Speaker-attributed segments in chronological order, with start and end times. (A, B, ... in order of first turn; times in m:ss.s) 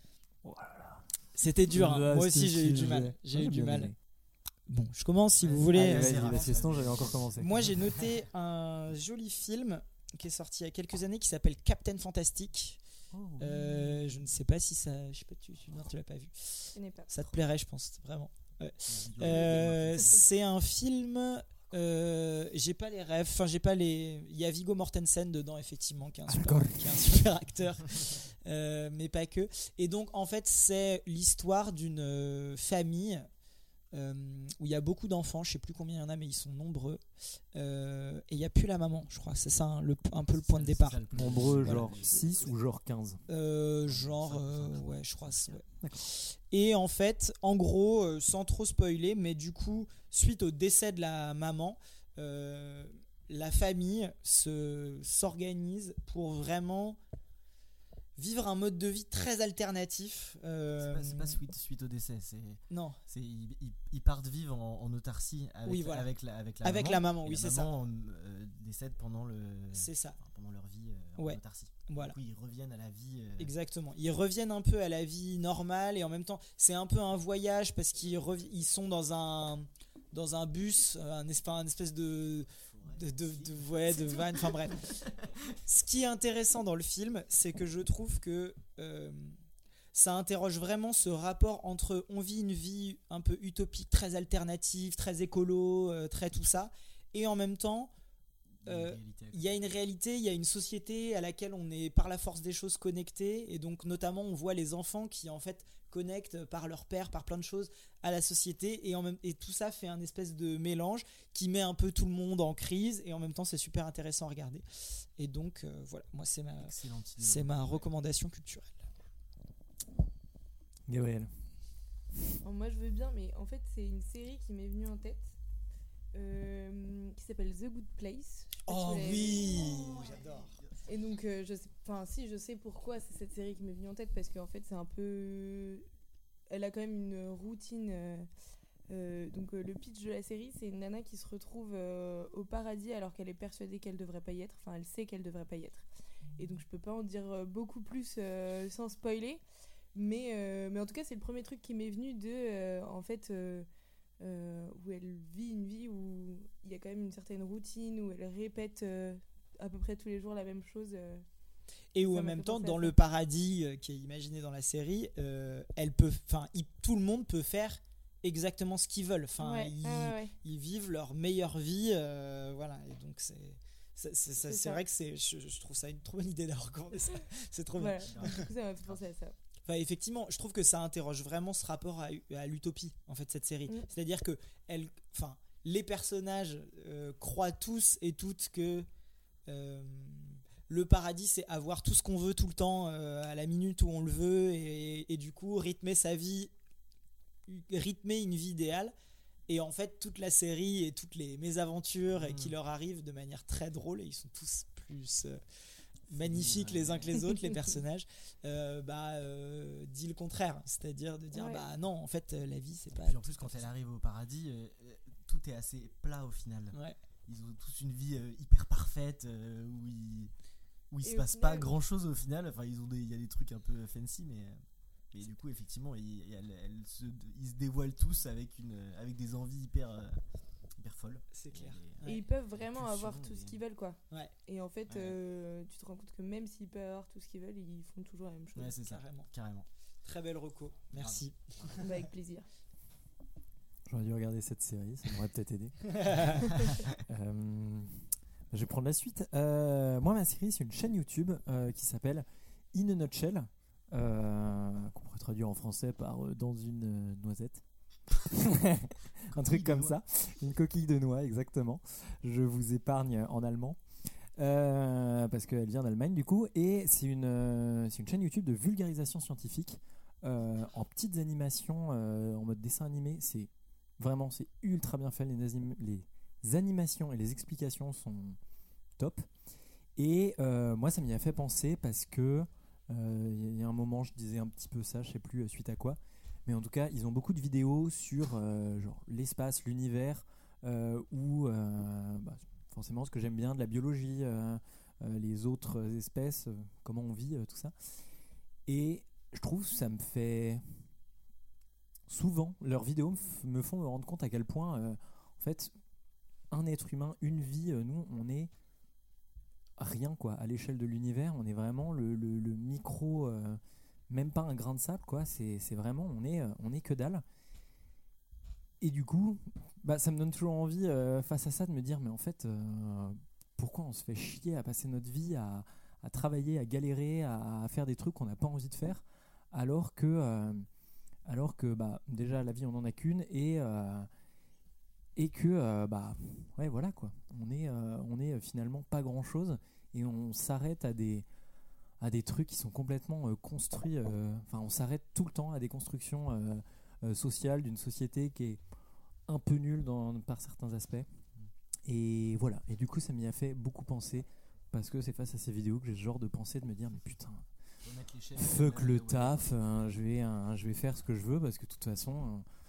0:00.4-0:01.1 A
0:01.3-0:03.9 B
0:01.7-0:04.0 A
0:04.7-0:06.5 B
0:05.4-0:08.0 C
0:05.7-0:07.7 A
0:07.4-0:12.8 B
0:13.1-0:14.0 A
0:13.4-0:33.2 B
0:16.7-0:17.1 D
0:18.9-0:20.2 C
0:19.3-0:19.7 D
0:26.3-0:27.2 A
0:33.9-0:37.0 B
0:37.5-0:42.4 B
0:40.3-0:42.5 C
0:41.1-0:43.2 A
0:43.3-0:57.0 B
0:43.8-0:45.6 C
0:58.2-1:01.4 B
1:00.8-1:13.5 C
1:02.7-1:03.0 B
1:05.6-1:06.1 B
1:06.6-1:07.7 B
1:09.7-1:10.2 B
1:11.2-1:12.2 B
1:13.4-1:24.9 B
1:22.7-1:25.5 C
1:25.6-1:29.4 B
1:29.9-1:37.9 B
1:38.6-1:39.5 C
1:38.6-1:54.6 B
1:55.2-1:58.8 B
1:56.6-1:57.9 C
2:00.9-2:01.3 A
2:02.4-2:05.3 D
2:06.1-2:09.7 D
2:08.7-2:10.6 B
2:09.1-2:10.9 C
2:10.8-2:15.8 D
2:16.5-2:18.3 D
2:18.9-2:25.8 D
2:26.4-2:29.4 D
2:29.9-2:33.6 D
2:34.2-2:41.2 D
2:41.9-2:58.3 B
2:42.0-2:42.9 D
2:49.4-2:50.3 D
2:54.4-2:54.8 D
2:57.8-2:59.3 D
2:58.0-2:59.0 C
2:59.7-3:08.9 B
3:09.5-3:16.5 B
3:17.5-3:18.9 B
3:19.5-3:25.4 B
3:22.1-3:22.5 C
3:26.1-3:33.7 B
3:26.1-3:27.2 C
3:31.3-3:31.6 D
3:32.9-3:40.3 C
3:40.9-3:44.6 C
3:41.0-3:41.7 D
3:45.1-3:50.2 C
3:50.8-3:53.6 C
3:51.3-3:52.2 B
3:52.0-3:58.7 D
3:54.9-3:55.2 C
3:58.5-3:59.7 C
3:58.8-3:59.3 B
4:00.0-4:01.5 B
4:01.0-4:01.9 C
4:01.8-4:02.4 D
4:03.8-4:06.2 A
4:05.9-4:06.4 B
4:06.9-4:17.6 A
4:18.2-4:38.4 A
4:19.3-4:20.0 C
4:39.0-4:39.3 A
4:40.0-4:57.7 A
4:58.7-5:00.6 A
5:02.1-5:05.7 A
5:06.5-5:08.5 A
5:09.8-5:17.2 A
5:18.8-5:30.6 A
5:31.2-5:34.1 A
5:35.2-5:41.2 A
5:42.0-5:48.6 A
5:49.3-5:51.1 A
5:51.8-5:57.5 A
5:57.8-5:59.4 C
5:58.4-6:02.4 A